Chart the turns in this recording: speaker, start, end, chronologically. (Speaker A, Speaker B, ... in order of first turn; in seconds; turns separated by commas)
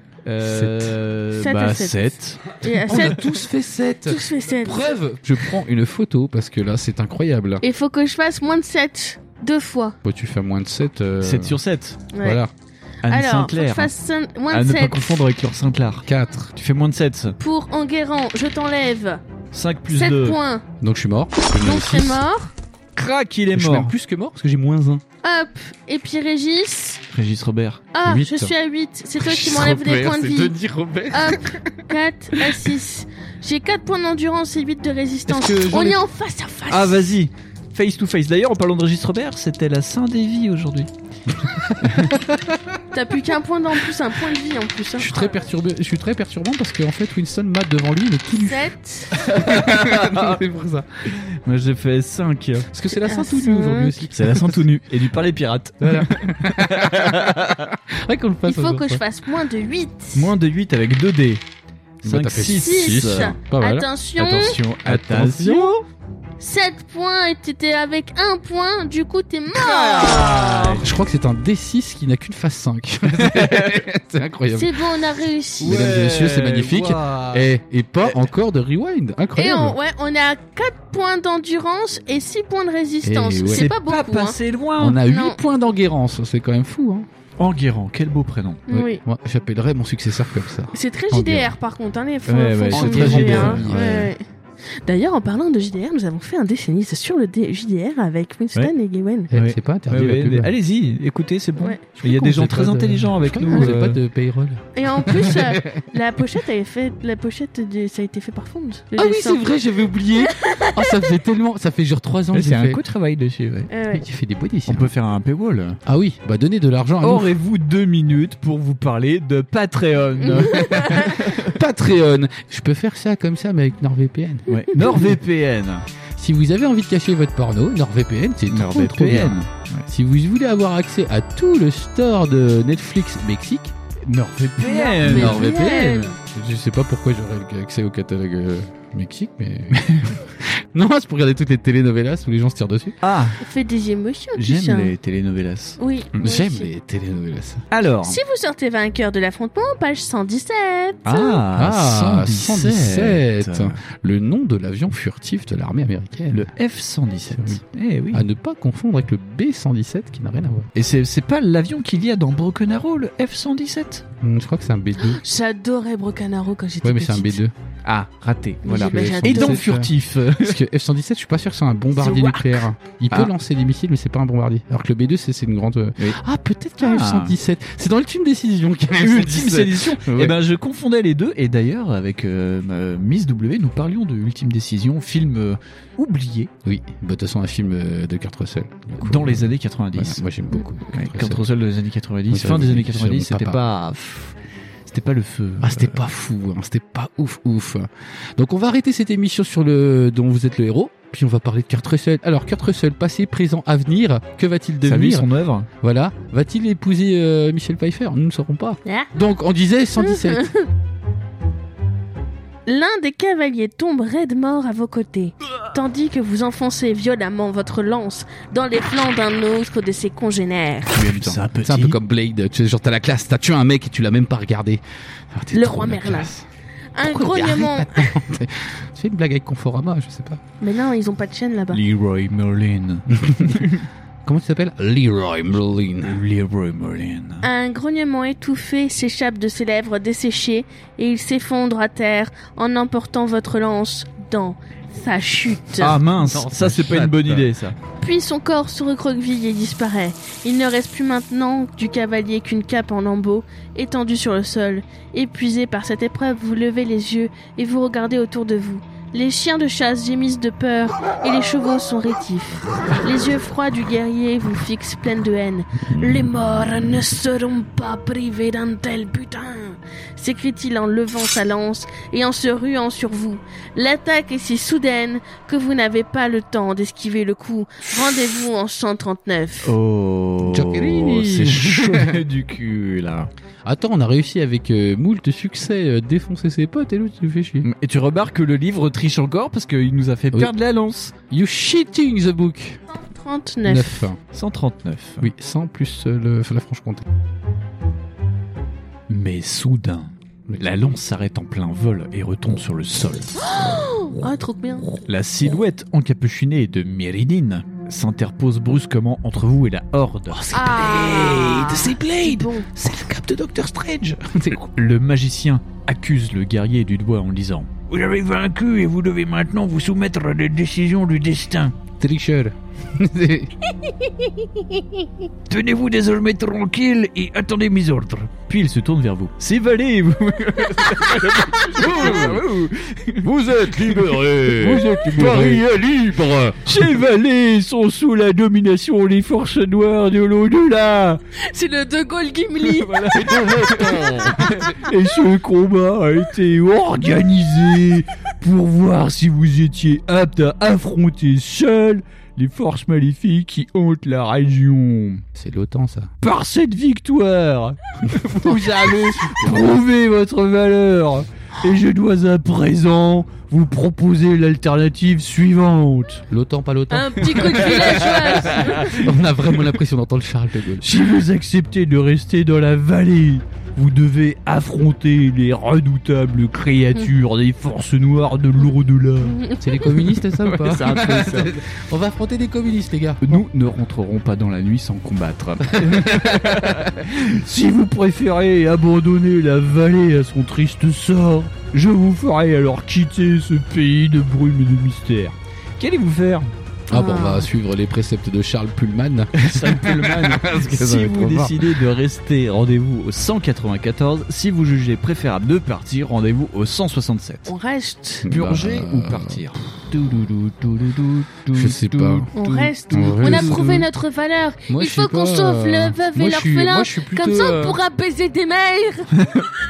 Speaker A: 0.2-2.4, Speaker B: 0.4-0.9, Speaker C: 1.4-3.3, Speaker B: 2.7-7.6, Speaker C: 4.1-4.9, Speaker C: 7.6-10.0, Speaker B: 10.0-11.6, Speaker A: 11.2-12.0, Speaker C: 12.1-12.4, Speaker B: 12.2-12.5, Speaker A: 13.0-13.9, Speaker C: 13.1-15.1, Speaker A: 14.5-17.4, Speaker B: 16.1-16.5, Speaker C: 17.4-19.2, Speaker A: 19.5-20.4, Speaker C: 19.9-20.6, Speaker B: 20.8-22.2, Speaker C: 21.6-22.5, Speaker A: 23.0-23.9, Speaker B: 23.5-25.0, Speaker C: 25.2-27.0, Speaker A: 27.1-27.8, Speaker C: 27.9-30.6, Speaker B: 28.0-28.5, Speaker B: 29.2-32.7, Speaker C: 31.1-37.2, Speaker B: 35.3-36.0, Speaker A: 36.7-40.9, Speaker B: 41.3-42.8, Speaker A: 41.8-42.1, Speaker C: 42.9-45.3, Speaker B: 45.0-50.9, Speaker C: 48.4-49.2, Speaker A: 49.2-50.4, Speaker A: 51.1-52.7, Speaker B: 52.7-54.7, Speaker C: 53.0-54.0, Speaker A: 54.1-57.6, Speaker B: 55.8-59.0, Speaker C: 58.5-60.3, Speaker A: 60.1-61.4, Speaker A: 62.0-63.3, Speaker B: 62.0-63.9, Speaker C: 62.5-64.6, Speaker A: 64.2-65.8, Speaker B: 64.8-65.7, Speaker C: 66.4-70.8, Speaker A: 69.5-70.9, Speaker B: 70.8-74.8, Speaker A: 73.2-73.8, Speaker C: 74.5-75.9, Speaker B: 75.6-79.8, Speaker A: 75.6-77.5, Speaker C: 79.4-84.4, Speaker B: 83.0-83.7, Speaker A: 83.5-85.0, Speaker B: 84.8-87.1, Speaker C: 85.1-85.4, Speaker A: 87.4-88.7, Speaker C: 88.7-89.0, Speaker B: 88.7-91.5, Speaker C: 90.7-94.2, Speaker A: 92.3-94.1, Speaker B: 92.7-94.1, Speaker C: 94.8-99.3, Speaker B: 99.3-100.5, Speaker A: 99.3-104.0, Speaker B: 102.0-105.9, Speaker C: 104.8-109.4, Speaker B: 109.0-112.8, Speaker C: 110.3-111.0, Speaker A: 112.3-113.7, Speaker C: 113.7-114.0, Speaker B: 113.9-114.9, Speaker A: 114.7-115.8, Speaker B: 115.8-117.3, Speaker A: 117.0-121.6, Speaker C: 120.3-121.2, Speaker B: 120.9-124.5, Speaker A: 124.5-125.8, Speaker B: 126.2-133.7, Speaker A: 128.5-129.9, Speaker A: 134.1-135.5, Speaker C: 134.6-136.2, Speaker B: 135.0-143.0, Speaker A: 143.0-143.4, Speaker C: 143.4-144.9, Speaker A: 144.4-145.8, Speaker C: 145.8-146.7, Speaker B: 146.1-147.6, Speaker A: 147.7-148.2, Speaker C: 148.1-151.4, Speaker A: 151.1-153.8, Speaker B: 151.6-156.5, Speaker A: 156.3-158.2, Speaker B: 158.1-160.7, Speaker A: 160.8-164.1, Speaker B: 164.2-165.2, Speaker C: 165.0-167.4, Speaker B: 166.8-167.5, Speaker A: 167.8-170.6, Speaker C: 168.6-169.7, Speaker B: 168.7-180.4, Speaker A: 172.0-172.5, Speaker A: 176.8-177.4, Speaker A: 179.0-186.5, Speaker B: 186.7-191.4, Speaker A: 189.0-190.2, Speaker A: 190.9-194.3, Speaker B: 192.3-193.6, Speaker A: 194.9-196.0, Speaker B: 195.6-205.3, Speaker A: 204.8-205.7, Speaker B: 205.8-210.5, Speaker C: 208.9-209.1, Speaker C: 210.0-210.7, Speaker C: 212.7-221.0, Speaker A: 220.9-222.0, Speaker B: 221.0-226.4, Speaker C: 225.5-226.3, Speaker C: 226.9-228.1, Speaker B: 227.0-230.4, Speaker C: 230.6-231.8, Speaker A: 231.7-233.8, Speaker B: 233.1-233.7, Speaker B: 234.2-236.2, Speaker A: 236.0-237.5, Speaker C: 237.4-246.0, Speaker A: 245.8-247.8, Speaker B: 246.2-247.5, Speaker C: 248.0-279.7, Speaker B: 265.9-266.3, Speaker A: 279.6-283.3, Speaker B: 280.4-282.2, Speaker B: 283.6-287.7, Speaker A: 287.6-291.1, Speaker B: 291.3-292.8, Speaker C: 292.9-294.1, Speaker B: 293.6-294.2, Speaker A: 294.3-295.3, Speaker B: 295.2-297.0, Speaker A: 299.1-303.5, Speaker C: 303.4-304.9, Speaker A: 305.1-310.4, Speaker B: 310.3-314.6, Speaker C: 310.5-312.7, Speaker A: 314.6-321.8, Speaker B: 322.0-323.5, Speaker C: 323.8-325.1, Speaker A: 325.5-335.7, Speaker B: 331.7-332.4, Speaker B: 333.2-336.8, Speaker A: 336.6-341.2, Speaker C: 341.4-343.3, Speaker A: 342.6-355.2, Speaker B: 343.1-344.7, Speaker C: 343.9-344.6, Speaker B: 355.4-356.1, Speaker A: 356.2-366.2, Speaker B: 358.4-359.8, Speaker B: 366.3-370.9, Speaker C: 366.9-368.9, Speaker A: 367.5-369.8, Speaker A: 370.8-379.4, Speaker C: 379.2-380.0, Speaker B: 379.6-383.4, Speaker A: 380.2-381.6, Speaker A: 383.2-396.5, Speaker B: 385.7-387.0, Speaker B: 396.9-401.8, Speaker C: 396.9-397.5, Speaker A: 399.4-407.5, Speaker C: 407.5-408.3, Speaker B: 408.2-409.4, Speaker A: 408.3-413.9, Speaker B: 411.5-412.3, Speaker C: 412.4-419.3, Speaker B: 412.9-413.9, Speaker B: 414.7-417.8, Speaker A: 419.2-419.5